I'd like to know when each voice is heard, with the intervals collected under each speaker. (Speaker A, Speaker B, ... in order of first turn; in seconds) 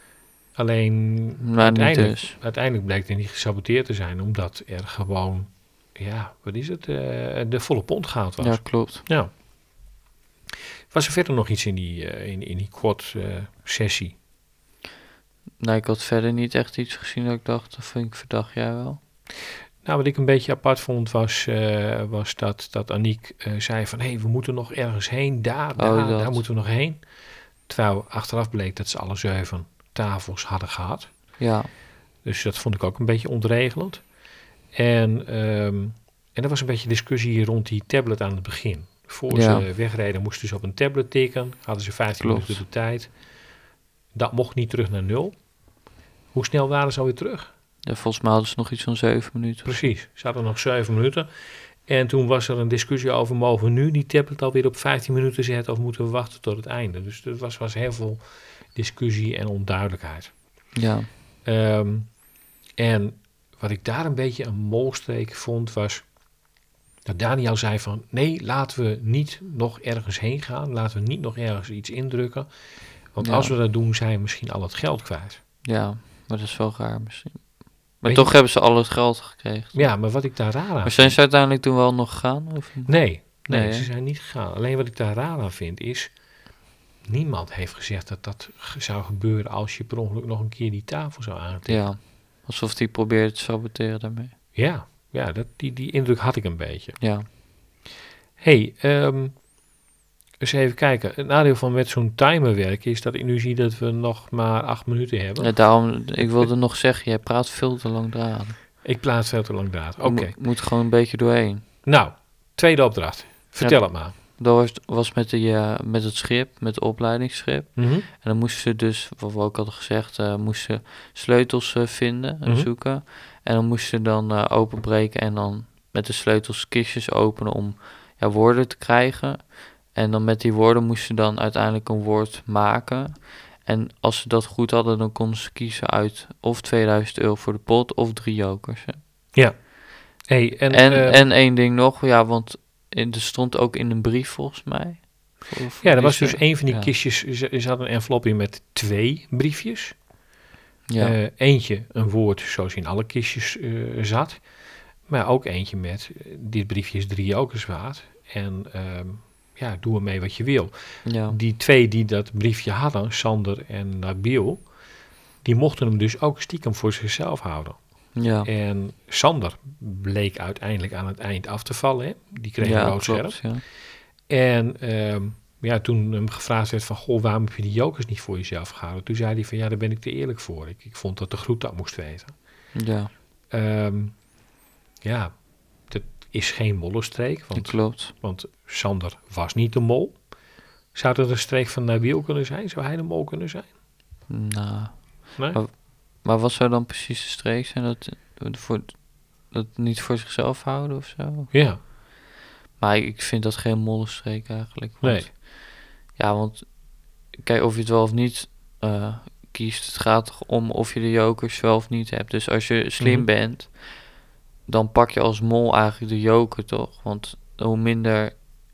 Speaker A: 0.6-9.3, 10.9-14.1, 19.8-27.0, 27.6-31.1, 32.2-34.0, 34.7-43.1, 44.1-45.4, 46.3-47.5, 49.6-51.3, 51.9-58.2, 58.7-60.3, 61.4-62.1, 62.8-66.0, 67.0-72.5, 73.1-75.4, 78.1-78.4, 79.7-81.2, 82.8-86.1, 87.1-91.8, 94.5-97.0, 98.4-99.4, 100.4-105.5, 108.8-110.3, 111.8-114.1, 117.8-118.1, 140.2-141.2, 145.8-149.9, 151.0-154.4, 155.1-164.6, 165.4-167.8, 168.4-173.5, 174.3-182.3, 183.5-184.2, 185.0-185.3, 185.9-190.2, 190.9-193.7, 201.5-201.8, 205.0-205.3, 213.0-213.3
Speaker B: 1.4-2.3, 8.4-9.1, 15.6-19.0, 25.8-26.4, 31.4-31.7, 39.3-39.7, 42.2-42.6, 47.9-49.8, 60.7-61.1, 73.2-73.5, 75.6-80.0, 80.8-83.9, 91.7-94.3, 97.0-97.3, 105.4-108.5, 110.0-111.6, 113.6-139.0, 140.7-146.9, 150.9-151.2, 161.0-161.4, 168.2-168.5, 172.6-173.6, 182.7-183.1, 187.5-188.1, 194.3-201.5, 202.8-205.4, 206.1-206.7, 207.3-214.1, 214.7-218.4